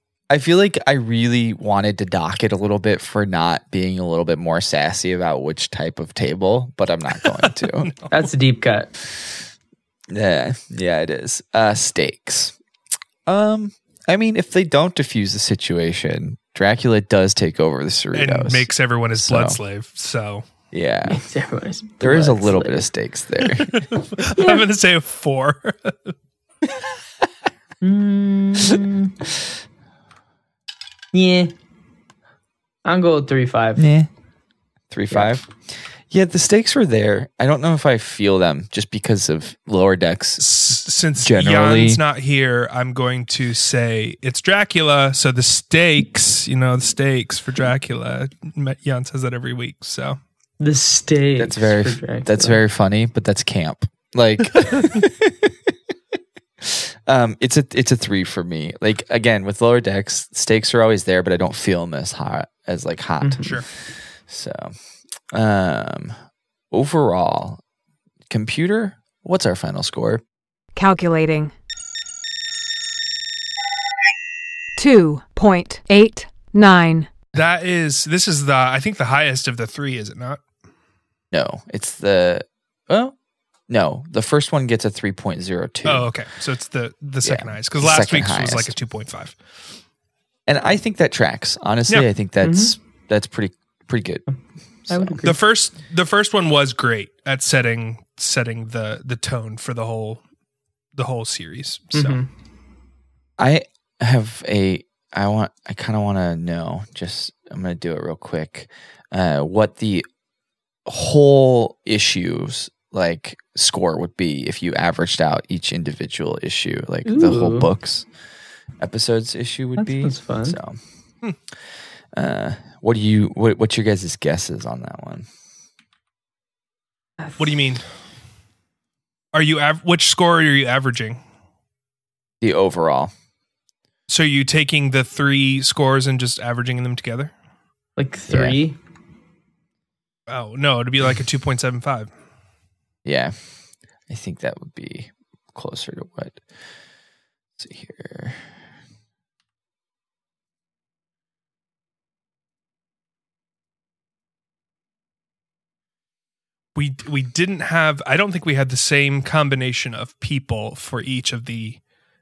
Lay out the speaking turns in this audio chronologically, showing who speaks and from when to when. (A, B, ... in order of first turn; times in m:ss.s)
0:00.3-0:07.9 A
0:07.6-0:08.1 B
0:08.1-0:08.9 C
0:10.1-0:12.5 A
0:13.2-0:19.6 A
0:18.1-0:20.4 B
0:20.7-0:21.2 A
0:21.1-0:22.8 C
0:22.0-0:23.9 A
0:23.6-0:26.1 B
0:24.2-0:24.6 C
0:27.8-0:29.1 C
0:31.1-0:31.5 C
0:32.8-0:33.9 C
0:33.8-0:34.1 A
0:34.9-0:35.6 A
0:35.1-0:35.4 C
0:36.1-0:40.4 A
0:40.4-0:50.2 B
0:41.2-0:42.0 A
0:50.6-0:52.6 C
0:51.4-0:55.6 A
0:56.6-1:03.6 A
1:03.2-1:03.6 C
1:04.3-1:04.7 A
1:05.3-1:06.1 A
1:06.7-1:07.6 A
1:08.3-1:10.2 A
1:10.7-1:11.5 D
1:14.8-1:17.1 D
1:17.3-1:20.4 B
1:21.3-1:23.1 A
1:23.7-1:26.1 A
1:25.8-1:29.4 B
1:27.2-1:28.7 A
1:30.5-1:34.2 A
1:32.4-1:32.7 C
1:34.8-1:35.2 A
1:34.9-1:35.4 C
1:35.2-1:40.2 B
1:41.0-1:42.2 B
1:41.9-1:42.2 C
1:43.4-1:50.1 A
1:50.8-1:58.1 A
1:57.0-1:57.7 C
1:58.8-2:00.8 A
1:59.8-2:00.6 C
2:02.1-2:05.3 A
2:07.4-2:07.8 B
2:09.3-2:11.2 B
2:12.4-2:13.1 A
2:14.1-2:17.3 B
2:18.0-2:18.8 C
2:18.3-2:18.6 A
2:20.3-2:22.1 B
2:23.0-2:23.4 A
2:24.1-2:26.4 A
2:27.6-2:28.4 A
2:36.8-2:41.8 B